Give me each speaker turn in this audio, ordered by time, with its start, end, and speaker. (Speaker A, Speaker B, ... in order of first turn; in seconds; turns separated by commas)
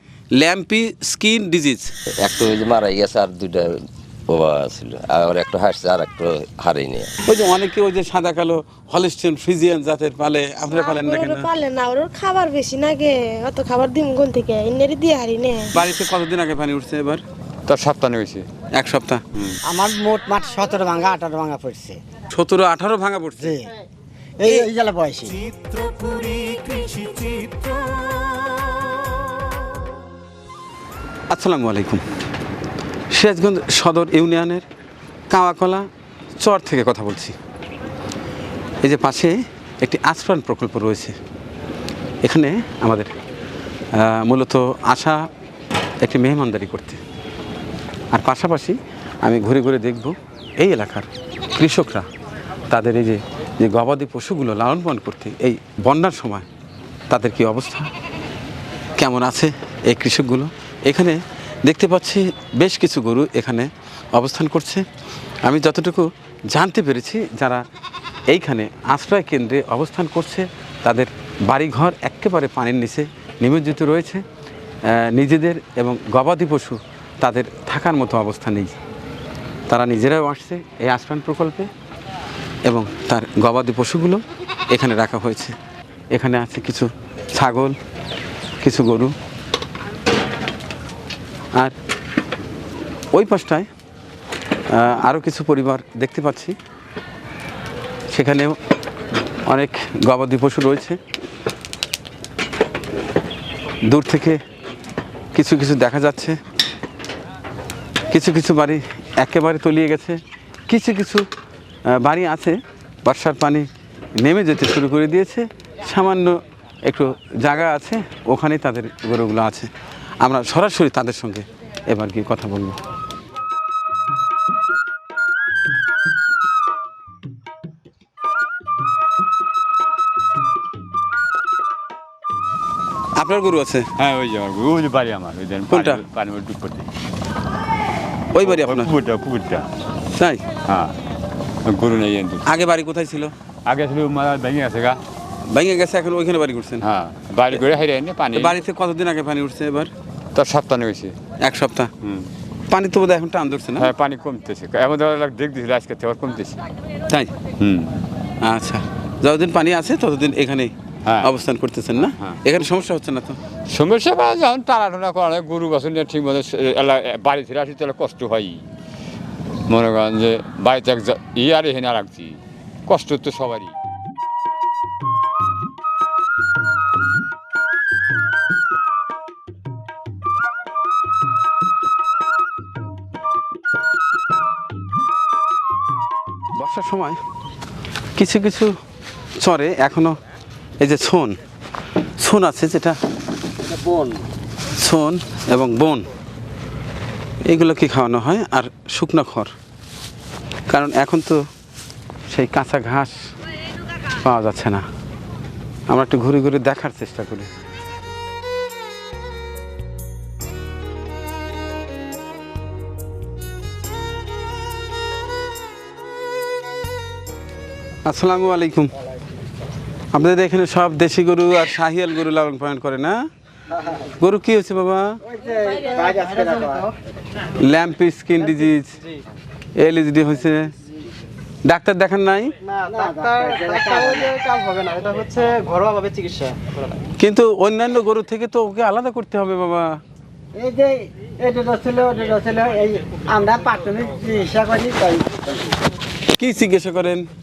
Speaker A: 0.3-1.9, Speaker B: 2.2-3.7, Speaker B: 4.3-7.1, Speaker A: 7.3-11.5, Speaker C: 10.7-15.7, Speaker A: 15.7-17.2, Speaker D: 17.7-18.5, Speaker A: 18.7-19.2, Speaker E: 19.6-22.0, Speaker A: 22.3-23.6, Speaker E: 23.4-23.7, Speaker E: 24.4-25.4, Speaker E: 27.2-27.6, Speaker A: 31.3-32.0, Speaker A: 33.1-34.6, Speaker A: 35.3-35.9, Speaker A: 36.4-37.4, Speaker A: 38.8-41.1, Speaker A: 42.2-43.1, Speaker A: 44.0-45.2, Speaker A: 46.0-47.0, Speaker A: 48.1-52.1, Speaker A: 52.7-56.5, Speaker A: 57.1-57.9, Speaker A: 59.0-64.8, Speaker A: 65.4-67.6, Speaker A: 68.3-74.2, Speaker A: 74.9-78.8, Speaker A: 79.7-81.7, Speaker A: 82.7-85.6, Speaker A: 86.1-87.8, Speaker A: 88.6-89.1, Speaker A: 93.1-93.7, Speaker A: 94.7-96.5, Speaker A: 98.1-98.6, Speaker A: 99.5-101.0, Speaker A: 103.9-104.4, Speaker A: 105.3-106.4, Speaker A: 108.1-111.3, Speaker A: 111.9-113.7, Speaker A: 114.2-119.7, Speaker A: 120.2-122.8, Speaker A: 133.2-133.9, Speaker D: 134.0-136.9, Speaker A: 135.7-136.0, Speaker A: 138.3-138.9, Speaker D: 138.4-139.7, Speaker A: 140.2-140.4, Speaker D: 140.7-140.9, Speaker D: 141.7-142.5, Speaker A: 142.5-143.3, Speaker D: 143.7-145.0, Speaker A: 145.5-146.8, Speaker D: 146.8-148.6, Speaker A: 148.3-149.9, Speaker D: 150.3-151.2, Speaker A: 151.4-151.9, Speaker D: 152.0-152.3, Speaker A: 152.7-153.9, Speaker D: 153.8-156.6, Speaker D: 157.6-157.9, Speaker A: 158.4-163.4, Speaker D: 163.7-168.7, Speaker D: 169.7-173.8, Speaker A: 186.6-187.2, Speaker A: 188.2-188.7, Speaker A: 189.4-190.2, Speaker A: 190.8-191.3, Speaker A: 192.2-193.0, Speaker A: 194.8-196.1, Speaker A: 197.5-199.5, Speaker A: 200.7-201.4, Speaker A: 202.3-203.2, Speaker A: 204.2-204.8, Speaker A: 205.9-207.5, Speaker A: 218.1-218.9, Speaker A: 220.1-223.2, Speaker A: 224.2-225.2, Speaker E: 225.2-226.9, Speaker A: 227.6-228.9, Speaker A: 229.8-230.7, Speaker A: 231.7-232.5, Speaker E: 232.8-234.7, Speaker F: 234.5-236.6, Speaker A: 237.2-240.0, Speaker E: 240.6-245.5, Speaker A: 246.3-247.3